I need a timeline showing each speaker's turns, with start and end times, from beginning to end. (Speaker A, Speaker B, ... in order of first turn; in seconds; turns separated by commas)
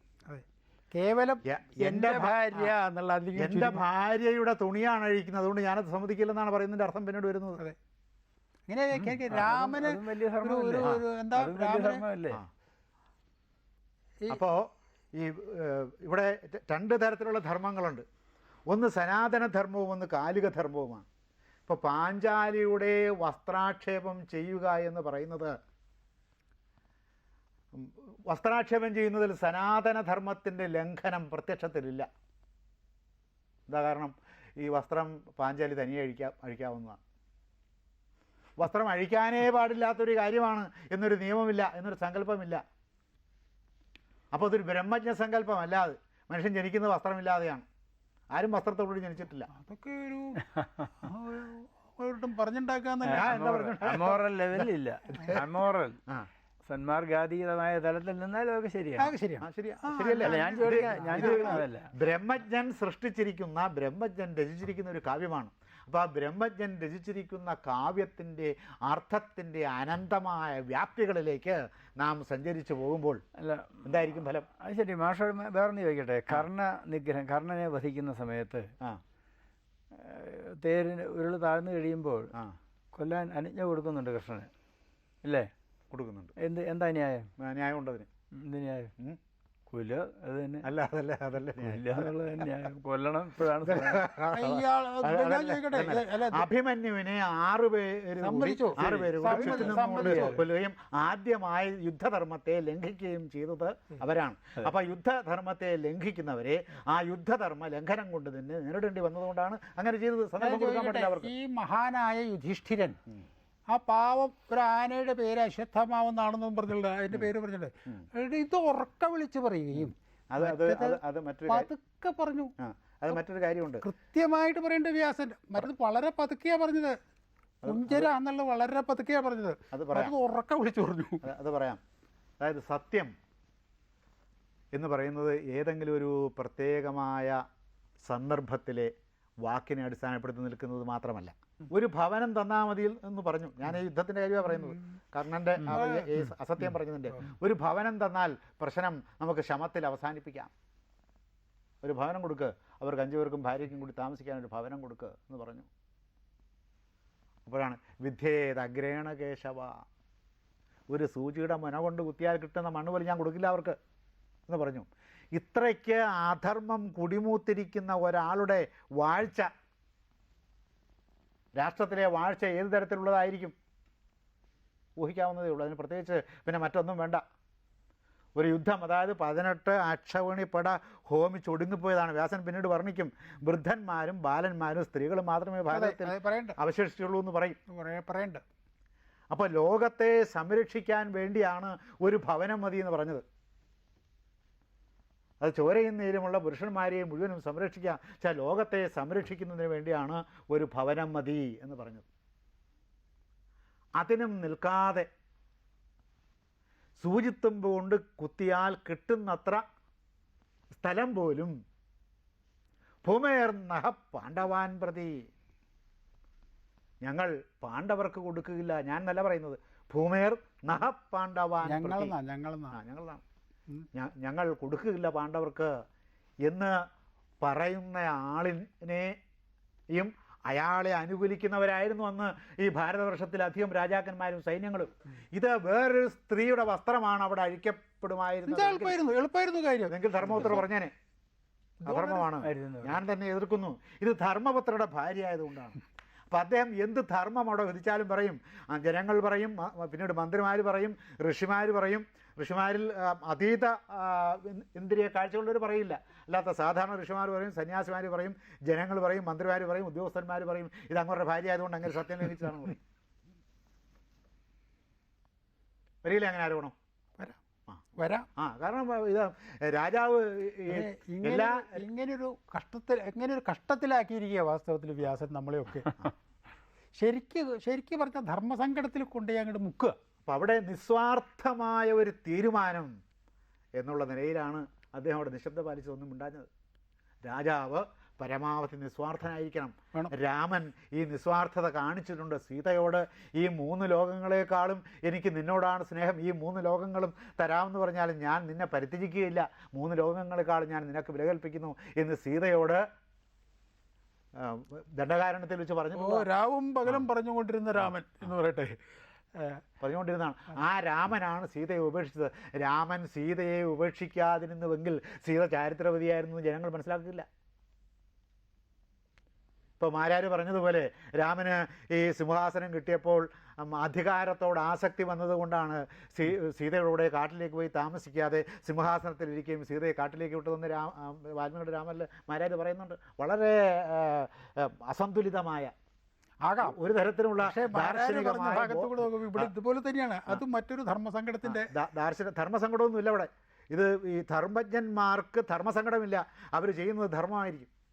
Speaker A: 0.3-3.9, Speaker B: 1.4-2.7, Speaker B: 3.4-7.6, Speaker A: 8.7-12.0, Speaker C: 9.3-12.4, Speaker B: 14.3-18.0, Speaker B: 18.7-21.1, Speaker B: 21.7-25.6, Speaker B: 27.7-32.1, Speaker B: 33.7-37.0, Speaker B: 38.6-42.6, Speaker B: 44.3-47.7, Speaker B: 48.3-49.5, Speaker A: 49.5-50.5, Speaker C: 50.6-50.9, Speaker A: 51.0-53.4, Speaker C: 53.0-56.0, Speaker B: 53.1-55.4, Speaker C: 56.7-59.1, Speaker A: 59.0-61.6, Speaker B: 59.4-73.2, Speaker C: 60.2-61.9, Speaker C: 73.3-78.7, Speaker B: 73.8-74.5, Speaker C: 79.9-82.3, Speaker C: 82.9-84.5, Speaker C: 85.2-85.5, Speaker B: 85.9-86.3, Speaker C: 86.4-87.3, Speaker B: 87.4-88.1, Speaker C: 88.3-88.9, Speaker C: 89.7-90.7, Speaker B: 90.6-92.1, Speaker C: 91.6-94.1, Speaker B: 93.7-111.3, Speaker A: 94.3-96.5, Speaker A: 98.2-100.4, Speaker C: 98.8-100.4, Speaker A: 110.4-113.0, Speaker A: 113.7-122.5, Speaker B: 119.8-121.7, Speaker B: 122.6-123.8, Speaker A: 123.8-127.0, Speaker B: 127.6-128.1, Speaker A: 127.7-131.2, Speaker B: 129.7-130.1, Speaker B: 131.2-131.8, Speaker B: 132.4-133.1, Speaker B: 134.7-137.4, Speaker B: 138.0-138.9, Speaker B: 139.4-150.5, Speaker A: 145.7-146.1, Speaker B: 151.8-155.7, Speaker B: 157.4-159.8, Speaker B: 160.9-163.8, Speaker B: 164.5-169.5, Speaker B: 171.6-173.6, Speaker B: 175.0-177.2, Speaker B: 178.4-187.6, Speaker A: 185.7-186.6, Speaker A: 187.7-188.4, Speaker B: 189.3-193.2, Speaker B: 195.4-202.1, Speaker B: 204.0-205.1, Speaker B: 207.0-209.6, Speaker B: 210.7-211.6, Speaker B: 213.0-215.3, Speaker B: 217.0-222.2, Speaker A: 221.6-222.8, Speaker B: 222.7-223.2, Speaker B: 223.9-225.8, Speaker B: 226.4-226.9, Speaker B: 227.4-229.2, Speaker B: 229.9-239.0, Speaker A: 238.5-240.6, Speaker B: 239.9-240.9, Speaker A: 241.8-242.3, Speaker B: 241.9-245.8, Speaker C: 242.4-243.0, Speaker B: 246.3-262.8, Speaker B: 266.0-266.7, Speaker A: 268.0-268.3, Speaker B: 268.4-271.8, Speaker A: 270.7-276.1, Speaker A: 276.9-280.0, Speaker B: 280.2-282.9, Speaker B: 283.8-286.5, Speaker B: 287.2-302.9, Speaker B: 304.4-306.3, Speaker A: 306.0-308.8, Speaker A: 309.4-309.6, Speaker B: 309.8-317.3, Speaker B: 319.8-335.7, Speaker A: 336.4-336.8, Speaker B: 336.6-339.5, Speaker A: 337.4-341.7, Speaker B: 341.4-347.7